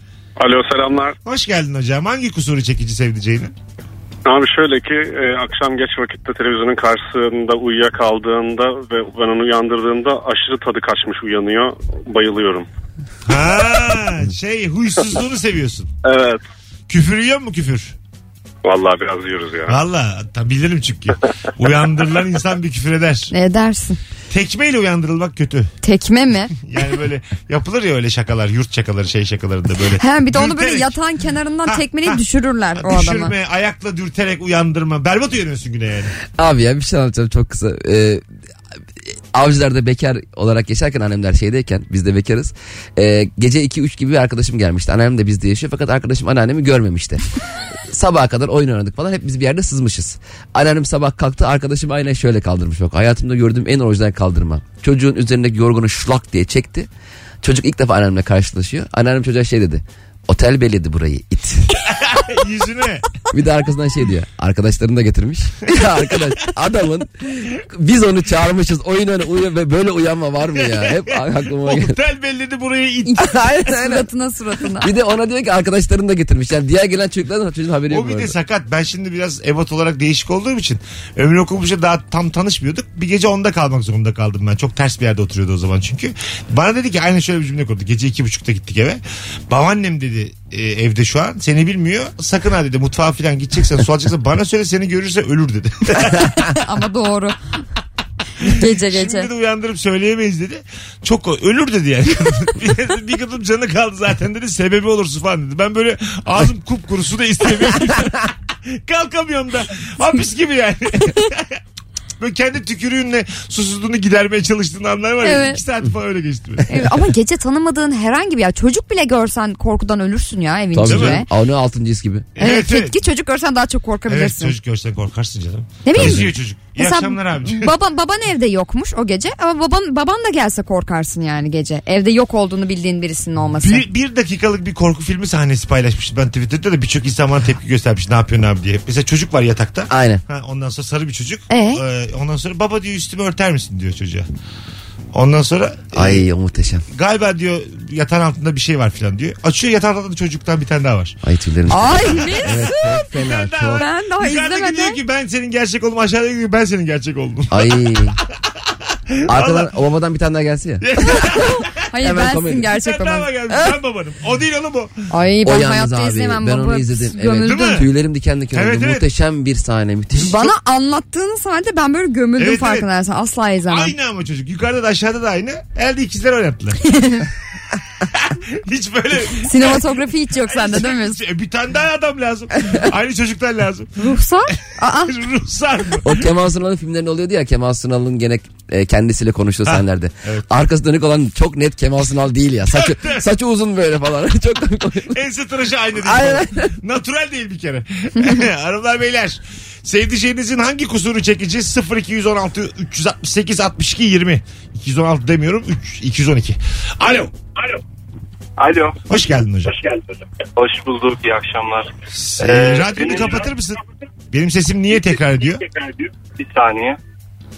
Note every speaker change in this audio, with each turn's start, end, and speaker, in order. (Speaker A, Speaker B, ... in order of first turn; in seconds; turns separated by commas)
Speaker A: 0.4-1.1, Speaker B: 1.2-3.5, Speaker A: 4.2-12.7, Speaker B: 13.2-15.9, Speaker A: 16.0-16.4, Speaker B: 16.9-17.9, Speaker A: 18.6-19.8, Speaker B: 19.7-23.3, Speaker C: 23.3-24.0, Speaker B: 24.3-25.7, Speaker C: 25.8-26.5, Speaker B: 26.6-31.0, Speaker C: 30.0-33.3, Speaker B: 31.6-32.2, Speaker B: 32.7-36.1, Speaker D: 36.4-38.2, Speaker D: 39.3-47.2, Speaker D: 47.8-56.9, Speaker D: 57.4-61.7, Speaker B: 61.9-63.1, Speaker D: 63.3-72.0, Speaker B: 70.6-73.3, Speaker C: 73.1-74.9, Speaker D: 73.2-74.1, Speaker D: 74.8-78.3, Speaker B: 77.9-96.5, Speaker C: 96.5-97.3, Speaker B: 98.4-111.6, Speaker C: 98.5-99.3, Speaker B: 112.2-116.9, Speaker C: 115.2-115.6, Speaker C: 116.7-121.2, Speaker D: 120.7-122.3, Speaker B: 120.9-121.2, Speaker B: 122.4-123.0, Speaker C: 122.4-124.5, Speaker B: 124.1-127.7, Speaker C: 125.8-133.8, Speaker D: 125.9-126.3, Speaker B: 133.6-144.3, Speaker D: 139.9-140.2, Speaker C: 141.5-141.8, Speaker B: 145.1-146.2, Speaker D: 145.9-146.8, Speaker B: 146.9-151.2, Speaker D: 151.2-153.9, Speaker C: 151.7-153.1, Speaker B: 152.2-157.8, Speaker C: 153.8-155.0, Speaker D: 157.5-158.2, Speaker B: 159.1-159.7, Speaker D: 159.3-160.9, Speaker B: 160.8-161.7, Speaker C: 161.3-163.3, Speaker D: 162.0-162.7, Speaker B: 162.7-164.9, Speaker C: 165.1-167.8, Speaker D: 165.4-170.5, Speaker B: 167.4-167.9, Speaker B: 168.5-169.0, Speaker C: 170.2-173.9, Speaker B: 172.4-172.9, Speaker B: 173.7-176.8, Speaker C: 176.9-177.2, Speaker B: 178.1-179.8, Speaker C: 179.4-181.2, Speaker B: 180.5-184.2, Speaker C: 184.0-185.1, Speaker B: 184.8-186.2, Speaker D: 186.0-195.2, Speaker B: 189.7-190.5, Speaker B: 192.7-193.2, Speaker B: 195.1-207.3, Speaker D: 195.9-196.7, Speaker E: 208.6-209.0, Speaker B: 209.1-209.7, Speaker E: 210.5-213.5, Speaker B: 212.1-213.8, Speaker B: 214.3-215.6, Speaker E: 215.7-217.0